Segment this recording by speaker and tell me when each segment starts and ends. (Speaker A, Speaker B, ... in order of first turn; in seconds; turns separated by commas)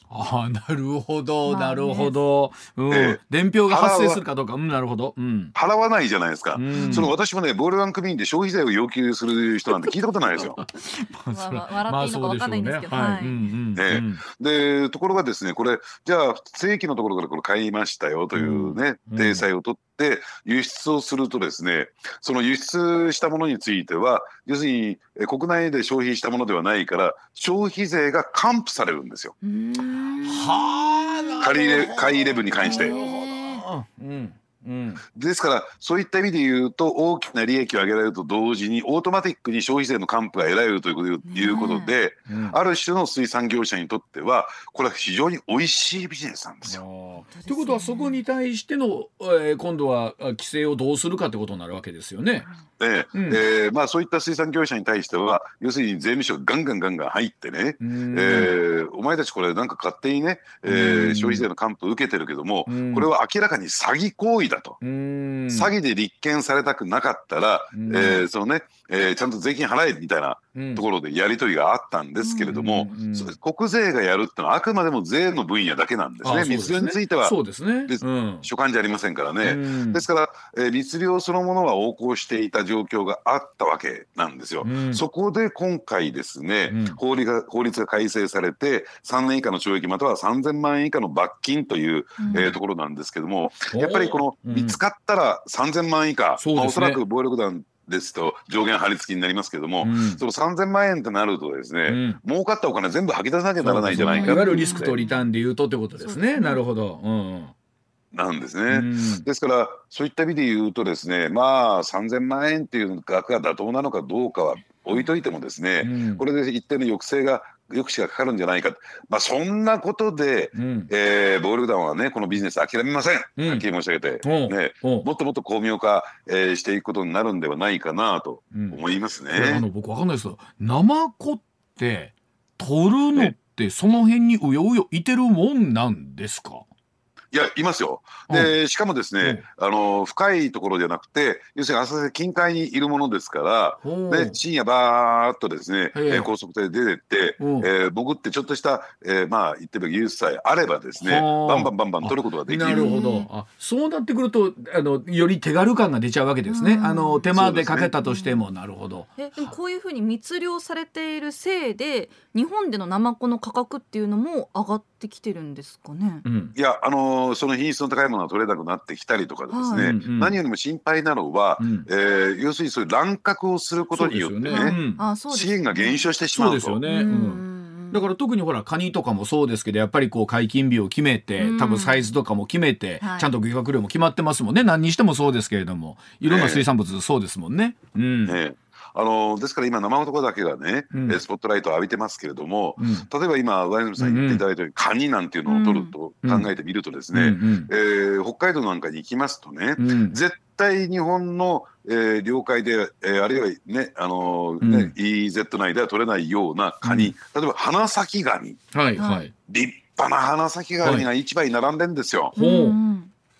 Speaker A: 0.1-5.5, Speaker B: 1.4-2.2, Speaker C: 2.9-4.2, Speaker C: 5.5-10.6, Speaker A: 6.5-7.1, Speaker B: 6.8-7.1, Speaker A: 9.7-14.2, Speaker B: 11.3-13.5, Speaker C: 13.7-29.3, Speaker A: 18.3-19.5, Speaker B: 29.4-31.9, Speaker A: 30.2-35.0, Speaker C: 31.4-32.9, Speaker B: 32.6-33.6, Speaker C: 35.1-46.8, Speaker B: 41.2-42.0, Speaker A: 42.3-42.6, Speaker A: 46.6-52.5, Speaker B: 47.2-48.2, Speaker C: 52.8-64.8, Speaker A: 53.1-53.4, Speaker A: 57.8-58.5, Speaker A: 60.6-61.5, Speaker A: 62.7-63.1, Speaker A: 64.8-65.7, Speaker C: 65.5-104.9, Speaker A: 67.7-68.2, Speaker B: 67.9-68.2, Speaker A: 70.5-70.8, Speaker B: 72.2-72.5, Speaker A: 72.5-73.3, Speaker A: 76.2-78.5, Speaker A: 79.4-80.0, Speaker A: 84.6-85.0, Speaker A: 86.7-87.0, Speaker B: 92.2-92.5, Speaker A: 92.3-92.5, Speaker A: 93.7-94.8, Speaker A: 96.4-97.0, Speaker A: 99.8-100.2, Speaker A: 101.8-102.2, Speaker A: 103.6-107.5, Speaker B: 103.9-105.3, Speaker B: 106.0-106.6, Speaker C: 108.1-129.7, Speaker A: 108.7-109.3, Speaker A: 115.8-116.2, Speaker A: 120.5-120.9, Speaker A: 123.4-123.7, Speaker A: 124.2-125.0, Speaker A: 128.5-128.8, Speaker A: 129.3-136.7, Speaker C: 137.3-153.0, Speaker A: 138.3-138.6, Speaker A: 139.2-139.4, Speaker A: 143.8-144.4, Speaker A: 145.9-146.3, Speaker A: 147.4-147.7, Speaker A: 151.0-159.5, Speaker B: 152.7-153.3, Speaker B: 156.4-157.3, Speaker C: 157.3-157.9, Speaker B: 158.0-158.5, Speaker B: 159.2-166.2, Speaker A: 166.2-166.5, Speaker C: 166.5-174.8, Speaker B: 169.5-169.9, Speaker A: 169.7-170.4, Speaker A: 171.6-171.9, Speaker A: 173.9-175.0, Speaker B: 174.5-176.1, Speaker C: 175.3-176.8, Speaker A: 176.3-188.4, Speaker B: 176.8-178.0, Speaker B: 181.4-182.1, Speaker B: 183.0-183.3, Speaker C: 186.2-186.7, Speaker C: 188.2-208.6, Speaker A: 190.9-191.2, Speaker A: 192.8-193.1, Speaker A: 194.0-194.4, Speaker B: 195.4-195.9, Speaker A: 196.2-196.5, Speaker A: 197.1-197.7, Speaker A: 199.8-200.2, Speaker A: 204.6-204.9, Speaker A: 206.8-207.1, Speaker A: 208.7-209.3, Speaker B: 208.9-209.2, Speaker C: 209.5-212.3, Speaker A: 210.8-211.1, Speaker A: 212.3-212.8, Speaker B: 212.3-213.1